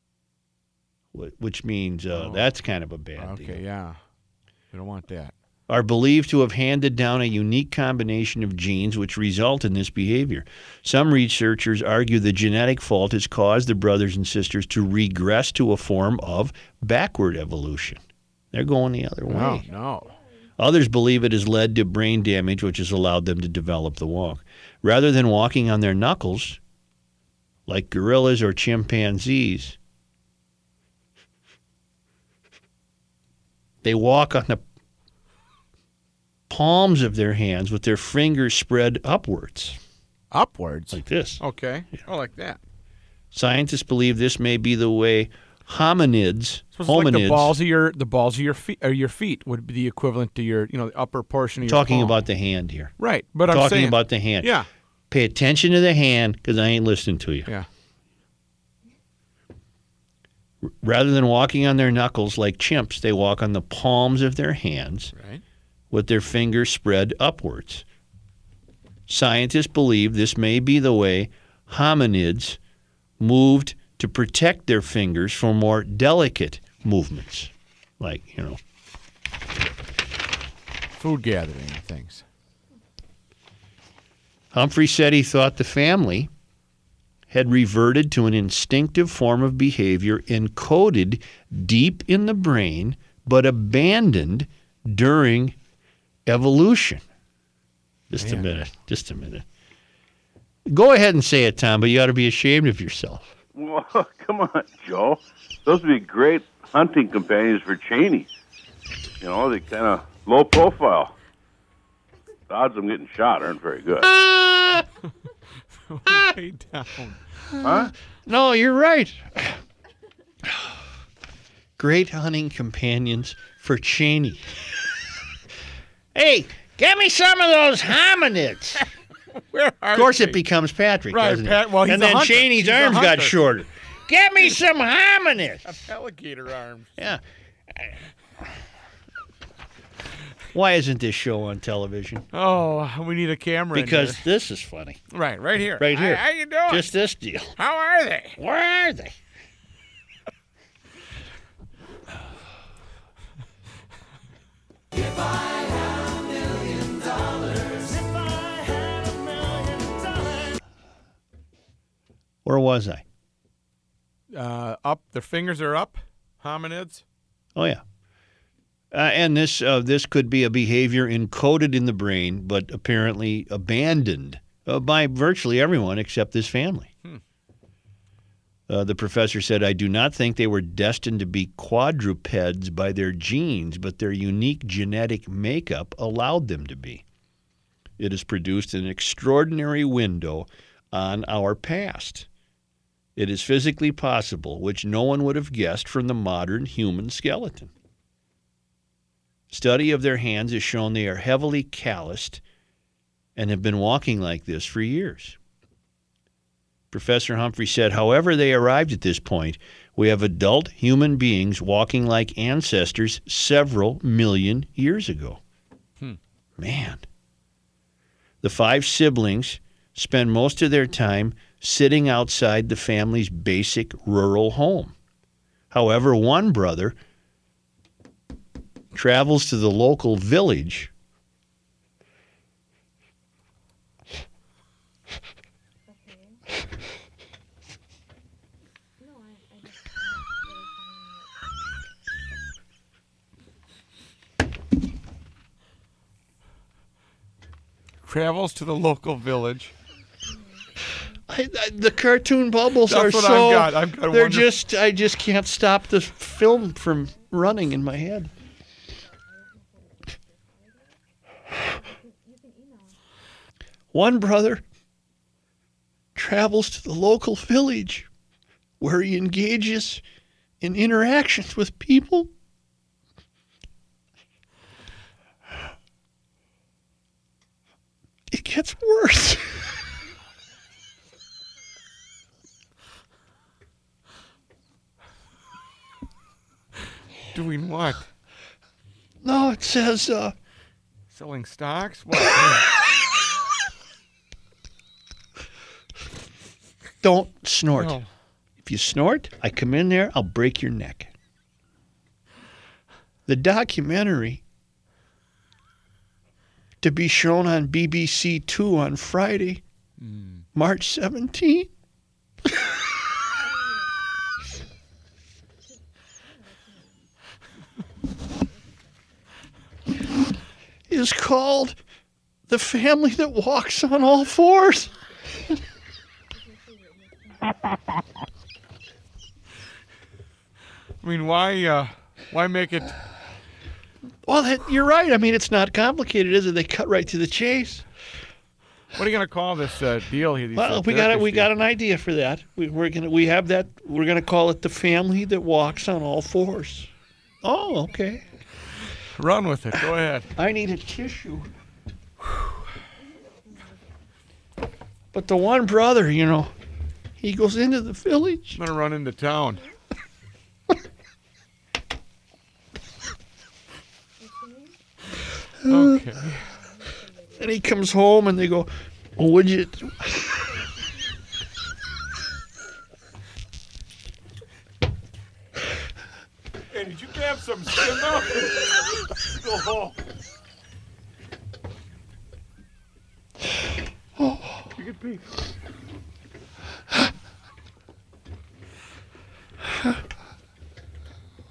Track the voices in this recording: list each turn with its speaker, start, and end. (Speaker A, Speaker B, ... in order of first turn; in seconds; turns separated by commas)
Speaker A: 1.1-3.6, Speaker B: 2.1-2.4, Speaker B: 3.2-4.0, Speaker B: 4.7-5.3, Speaker A: 5.7-19.7, Speaker B: 19.3-20.1, Speaker A: 20.6-26.6, Speaker A: 27.7-29.8, Speaker A: 33.8-34.6, Speaker A: 36.5-39.8, Speaker B: 40.3-42.6, Speaker A: 40.9-41.4, Speaker A: 43.3-47.5, Speaker B: 46.8-52.2, Speaker A: 51.6-52.9, Speaker B: 53.0-54.7, Speaker A: 53.5-54.5, Speaker A: 55.1-57.5, Speaker A: 60.7-65.1, Speaker B: 65.2-65.4, Speaker A: 65.9-67.8, Speaker A: 69.1-72.6, Speaker A: 73.2-78.6, Speaker B: 81.0-82.2, Speaker A: 84.5-86.3, Speaker A: 87.3-95.6, Speaker A: 96.3-97.0, Speaker A: 98.1-99.5, Speaker B: 98.2-98.6, Speaker A: 100.7-103.3, Speaker C: 103.5-108.3, Speaker C: 109.2-111.1, Speaker C: 112.5-114.1, Speaker A: 114.2-114.8, Speaker B: 115.9-117.2, Speaker C: 117.6-117.9, Speaker A: 117.8-119.6, Speaker A: 121.8-124.5, Speaker A: 126.1-128.9, Speaker B: 129.5-130.4, Speaker A: 129.9-135.7, Speaker B: 131.1-133.4, Speaker B: 135.6-136.9, Speaker A: 140.5-142.3, Speaker B: 142.3-144.2, Speaker A: 143.7-145.0, Speaker B: 145.1-146.9, Speaker A: 145.8-147.6, Speaker B: 147.6-148.3, Speaker A: 148.4-149.2, Speaker A: 162.4-163.0, Speaker B: 164.3-167.0, Speaker A: 167.6-167.8, Speaker A: 168.9-176.9, Speaker A: 178.7-187.1, Speaker A: 188.0-192.3, Speaker A: 193.2-197.7, Speaker A: 199.5-202.4, Speaker A: 203.4-205.4, Speaker A: 206.9-215.4, Speaker A: 216.6-217.1, Speaker A: 218.4-224.9, Speaker A: 225.7-227.0, Speaker A: 228.9-230.9, Speaker B: 248.1-249.7, Speaker A: 251.3-258.3, Speaker B: 252.9-254.5, Speaker A: 263.9-264.6, Speaker A: 266.1-268.1, Speaker A: 268.8-270.0, Speaker A: 270.6-272.3, Speaker A: 278.3-279.6, Speaker B: 287.3-288.1, Speaker A: 289.2-290.3, Speaker B: 291.1-292.7, Speaker A: 297.0-298.0, Speaker B: 297.8-298.1, Speaker A: 298.6-301.1, Speaker A: 303.3-304.4, Speaker A: 306.8-309.6, Speaker B: 310.0-310.4, Speaker A: 310.6-311.7, Speaker A: 320.9-321.8, Speaker A: 322.5-324.9, Speaker B: 331.0-333.0, Speaker A: 334.2-337.9, Speaker B: 338.9-341.5, Speaker A: 340.6-346.9, Speaker A: 347.4-348.3, Speaker B: 349.1-350.3, Speaker A: 350.4-351.5, Speaker A: 355.1-356.5, Speaker A: 357.2-358.6, Speaker B: 358.6-359.6, Speaker A: 365.6-366.1, Speaker B: 365.7-366.5, Speaker A: 367.4-370.2, Speaker B: 376.7-379.9, Speaker B: 384.8-385.2